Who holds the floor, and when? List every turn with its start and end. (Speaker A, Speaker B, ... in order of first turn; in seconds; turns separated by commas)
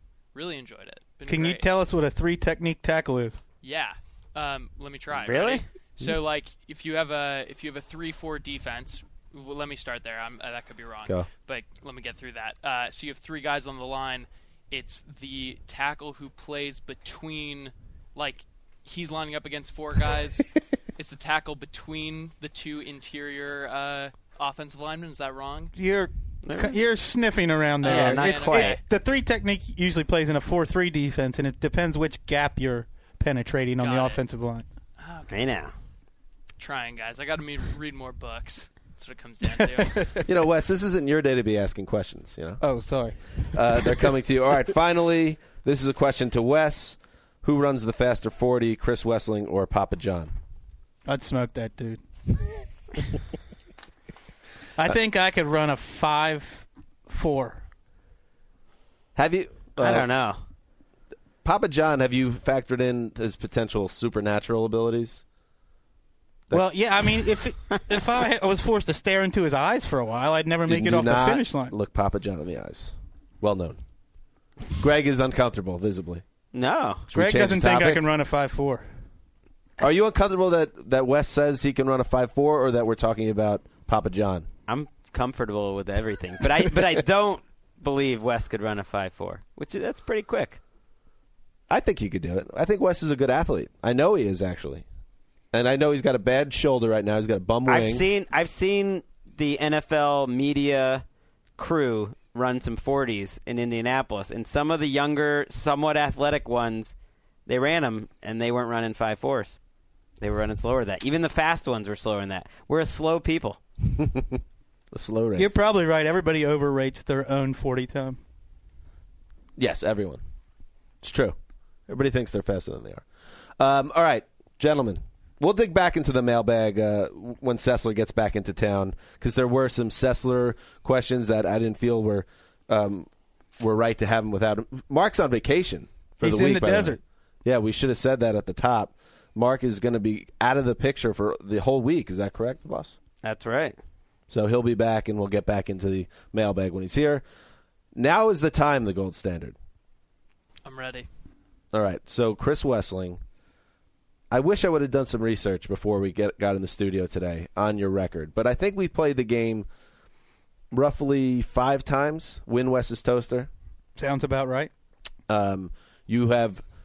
Speaker A: 0.3-1.7, Speaker B: 1.3-3.4, Speaker A: 3.6-25.7, Speaker C: 5.1-5.6, Speaker B: 25.8-34.6, Speaker C: 26.4-26.8, Speaker A: 27.8-28.8, Speaker C: 27.8-28.8, Speaker A: 33.8-34.2, Speaker A: 35.0-35.4, Speaker C: 35.3-35.7, Speaker A: 36.6-40.2, Speaker B: 39.9-40.2, Speaker D: 40.2-42.6, Speaker B: 42.6-44.1, Speaker D: 43.5-50.3, Speaker B: 51.1-52.0, Speaker B: 54.8-57.6, Speaker D: 59.1-60.1, Speaker C: 59.8-60.4, Speaker D: 61.4-65.2, Speaker B: 66.5-71.7, Speaker D: 70.7-73.8, Speaker D: 74.8-76.2, Speaker C: 76.5-77.0, Speaker D: 77.1-78.0, Speaker B: 77.1-78.9, Speaker D: 79.8-84.5, Speaker C: 84.7-90.6, Speaker D: 91.7-94.8, Speaker D: 95.5-98.0, Speaker C: 97.7-101.0, Speaker C: 101.6-106.9, Speaker C: 107.5-109.6, Speaker C: 110.2-113.6, Speaker D: 113.9-114.4, Speaker D: 114.9-115.6, Speaker B: 115.4-118.2, Speaker D: 119.6-120.2, Speaker D: 121.0-121.4, Speaker D: 121.9-123.0, Speaker D: 123.6-133.1, Speaker D: 133.6-142.9, Speaker B: 136.2-137.0, Speaker C: 143.2-143.8, Speaker D: 144.3-147.2, Speaker D: 147.9-149.6, Speaker A: 150.7-151.1, Speaker D: 151.7-153.2, Speaker D: 154.3-159.7, Speaker D: 160.7-163.5, Speaker B: 164.0-164.7, Speaker D: 165.3-166.6